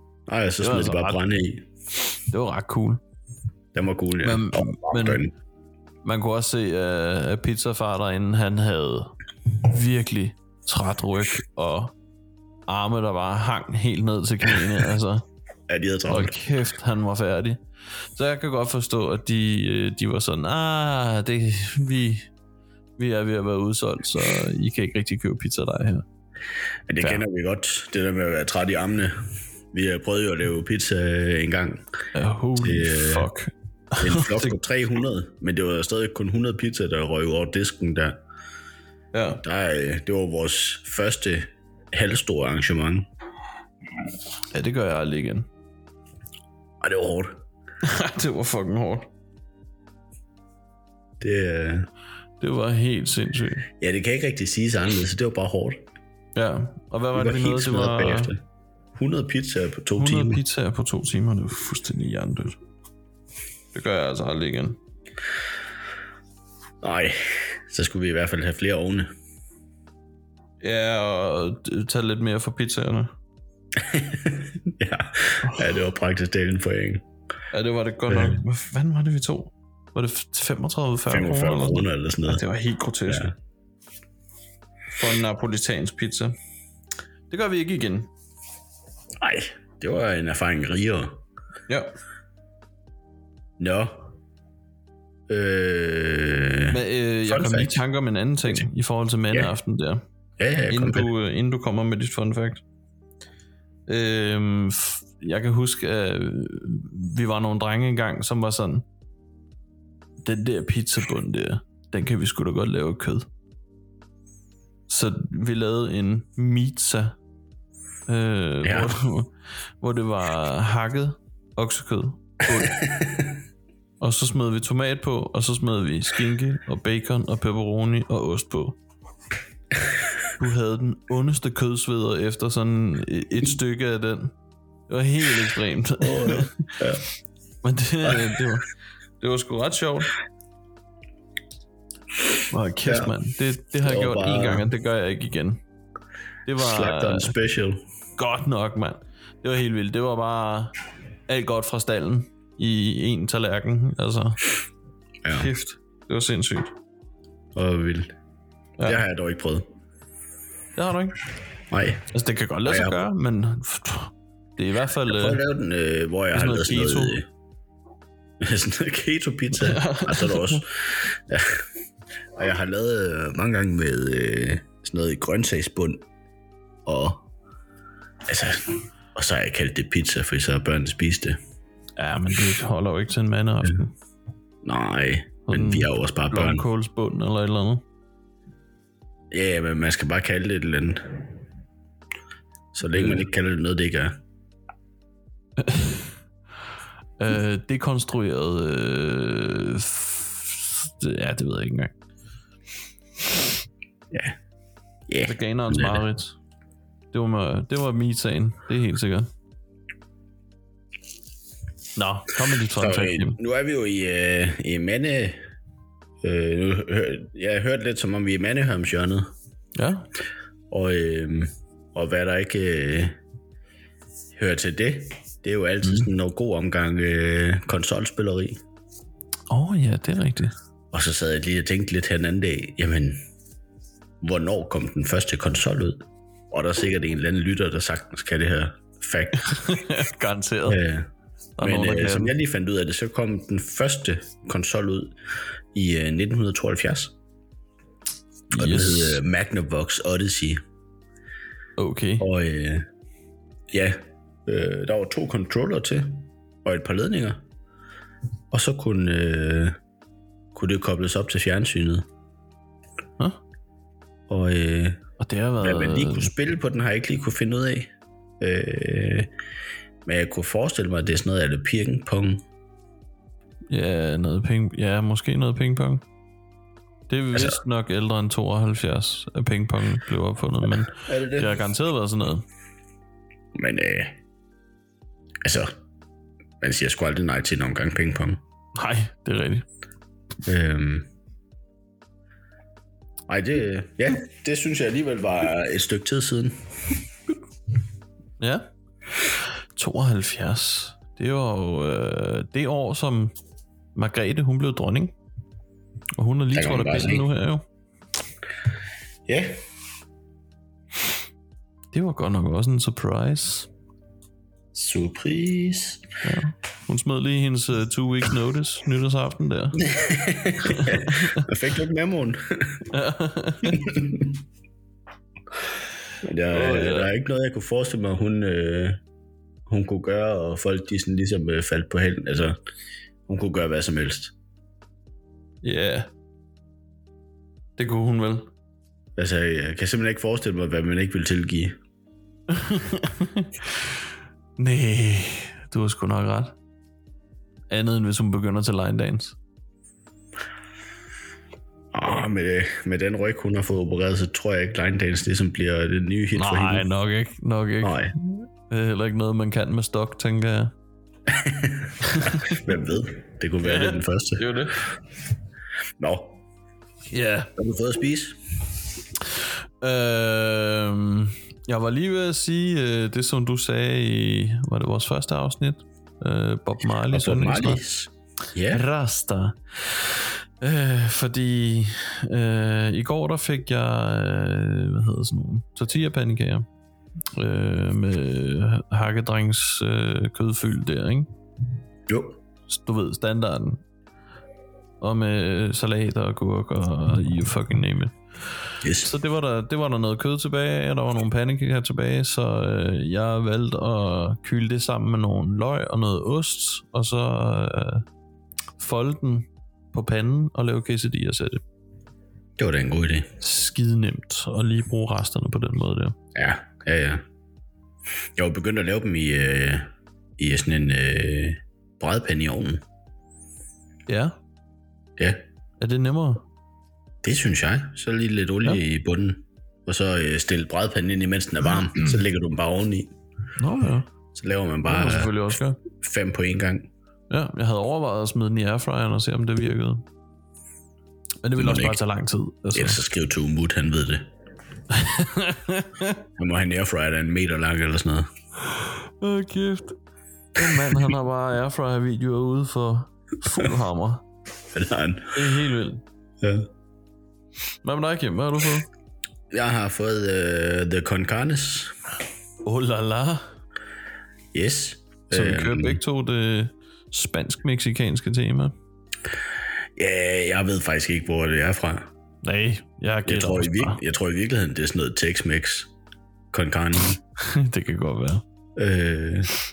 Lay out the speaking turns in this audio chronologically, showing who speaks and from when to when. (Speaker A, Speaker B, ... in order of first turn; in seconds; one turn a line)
Speaker A: 0.3-1.7
Speaker B: 0.6-1.2
Speaker B: 2.3-3.0
Speaker A: 3.7-5.3
Speaker B: 4.2-5.2
Speaker B: 6.0-11.9
Speaker B: 12.7-15.2
Speaker A: 15.7-16.3
Speaker B: 16.1-17.6
Speaker B: 18.1-22.3
Speaker B: 23.0-26.0
Speaker A: 26.9-29.2
Speaker A: 29.7-31.8
Speaker B: 32.1-34.5
Speaker A: 32.6-33.3
Speaker A: 34.0-38.2
Speaker B: 39.1-39.4
Speaker A: 39.4-43.1
Speaker B: 44.5-45.5
Speaker A: 46.8-47.4
Speaker B: 47.8-49.1
Speaker A: 51.2-51.9
Speaker B: 52.4-53.7
Speaker A: 53.8-55.8
Speaker B: 56.3-58.3
Speaker A: 57.1-58.4
Speaker A: 59.0-60.4
Speaker B: 60.0-62.6
Speaker B: 63.7-64.8
Speaker A: 66.8-69.1
Speaker B: 70.6-73.1
Speaker A: 73.8-77.0
Speaker B: 77.5-83.3
Speaker A: 78.1-78.4
Speaker A: 81.1-82.4
Speaker A: 83.1-83.3
Speaker B: 84.9-86.3
Speaker B: 87.3-88.1
Speaker A: 89.2-91.2
Speaker B: 91.7-91.9
Speaker A: 93.6-94.1
Speaker A: 95.3-97.8
Speaker B: 96.7-100.0
Speaker A: 100.4-101.1
Speaker B: 100.7-102.6
Speaker B: 103.9-108.8
Speaker B: 110.2-113.3
Speaker B: 114.9-117.2
Speaker B: 118.1-122.8
Speaker A: 118.6-118.9
Speaker A: 122.7-123.3
Speaker B: 124.0-128.8
Speaker B: 130.4-134.3
Speaker B: 134.9-136.6
Speaker A: 136.0-137.1
Speaker B: 137.6-138.7
Speaker A: 138.0-138.4
Speaker B: 139.2-140.1
Speaker B: 142.5-145.6
Speaker A: 142.8-143.1
Speaker A: 143.8-144.7
Speaker B: 146.4-147.3
Speaker A: 146.6-147.8
Speaker B: 148.2-150.7
Speaker B: 151.3-154.5
Speaker A: 155.2-155.5
Speaker B: 155.3-156.7
Speaker A: 157.6-158.1
Speaker A: 158.8-159.6
Speaker B: 160.7-161.2
Speaker A: 161.7-162.0
Speaker B: 162.1-165.4
Speaker A: 162.6-163.0
Speaker A: 165.1-167.2
Speaker B: 166.3-167.2
Speaker A: 168.4-171.6
Speaker B: 169.5-170.6
Speaker A: 172.3-176.0
Speaker A: 176.8-177.2
Speaker A: 178.3-181.4
Speaker B: 182.0-183.9
Speaker A: 184.6-186.6
Speaker B: 185.5-187.8
Speaker A: 189.3-191.2
Speaker A: 192.7-194.2
Speaker B: 192.9-193.2
Speaker B: 195.6-196.1
Speaker B: 197.2-201.9
Speaker A: 205.1-206.0
Speaker B: 205.2-206.3
Speaker B: 207.1-209.3
Speaker B: 211.9-213.4
Speaker A: 212.8-215.4
Speaker A: 216.2-219.3
Speaker B: 219.7-220.1
Speaker A: 220.7-223.2
Speaker A: 224.4-228.6
Speaker B: 229.5-230.5
Speaker A: 230.9-233.2
Speaker A: 234.2-239.8
Speaker B: 239.5-240.8
Speaker A: 240.7-241.1
Speaker B: 241.6-242.3
Speaker A: 241.6-245.1
Speaker A: 245.7-247.1
Speaker B: 248.5-249.2
Speaker A: 248.6-250.6
Speaker B: 251.8-252.2
Speaker A: 252.2-252.8
Speaker A: 253.7-257.4
Speaker A: 258.5-259.8
Speaker A: 260.5-262.1
Speaker A: 264.3-265.0
Speaker B: 265.2-266.3
Speaker A: 265.6-267.9
Speaker A: 268.4-269.3
Speaker A: 270.1-272.4
Speaker B: 273.7-276.0
Speaker B: 277.1-282.4
Speaker A: 277.3-277.6
Speaker A: 280.9-281.6
Speaker A: 283.6-284.2
Speaker A: 285.4-285.7
Speaker A: 286.6-288.4
Speaker B: 288.7-289.6
Speaker A: 290.4-291.1
Speaker A: 293.3-296.6
Speaker B: 298.4-298.7
Speaker B: 299.4-303.3
Speaker B: 303.9-305.1
Speaker B: 306.2-307.6
Speaker A: 306.5-307.3
Speaker A: 309.3-309.6
Speaker B: 311.9-313.7
Speaker A: 314.7-316.0
Speaker B: 316.2-319.8
Speaker A: 319.8-322.9
Speaker B: 320.6-321.4
Speaker B: 322.9-323.8
Speaker A: 323.7-324.4
Speaker A: 326.2-329.0
Speaker B: 326.5-327.1
Speaker A: 329.7-332.6
Speaker A: 333.3-334.3
Speaker B: 335.6-336.1
Speaker B: 337.8-338.5
Speaker A: 339.2-341.8
Speaker B: 342.5-344.0
Speaker B: 344.6-346.6
Speaker B: 347.7-349.4
Speaker A: 351.9-356.9
Speaker B: 356.4-360.7
Speaker A: 357.8-358.1
Speaker A: 361.3-364.5
Speaker B: 362.1-362.7
Speaker B: 363.6-364.8
Speaker A: 366.0-366.4
Speaker B: 367.1-367.5
Speaker A: 367.6-368.4
Speaker B: 369.3-377.8
Speaker A: 377.1-378.8
Speaker B: 378.7-386.6
Speaker B: 387.3-391.3
Speaker A: 392.1-392.4
Speaker B: 392.7-393.8
Speaker B: 395.0-398.1
Speaker A: 398.8-399.1
Speaker B: 399.0-408.0
Speaker B: 408.8-411.6
Speaker A: 412.6-413.3
Speaker B: 413.4-416.1
Speaker A: 416.3-417.2
Speaker A: 418.4-422.8
Speaker B: 424.1-424.3
Speaker B: 425.8-426.4
Speaker A: 427.2-433.1
Speaker B: 433.6-434.1
Speaker A: 434.3-435.4
Speaker B: 434.8-435.8
Speaker A: 436.0-436.9
Speaker B: 437.3-440.0
Speaker B: 441.4-443.0
Speaker A: 441.6-442.0
Speaker A: 442.7-444.3
Speaker B: 444.9-446.2
Speaker A: 446.4-448.3
Speaker B: 448.7-449.9
Speaker B: 450.6-454.2
Speaker A: 450.6-451.1
Speaker A: 454.7-455.4
Speaker B: 455.3-456.0
Speaker A: 456.4-456.7
Speaker B: 457.8-458.9
Speaker A: 459.5-461.9
Speaker B: 462.6-463.4
Speaker A: 464.5-466.0
Speaker B: 465.3-468.7
Speaker A: 469.9-472.1
Speaker B: 472.4-474.0
Speaker A: 473.2-475.9
Speaker A: 476.5-477.2
Speaker B: 477.4-478.4
Speaker A: 478.8-479.5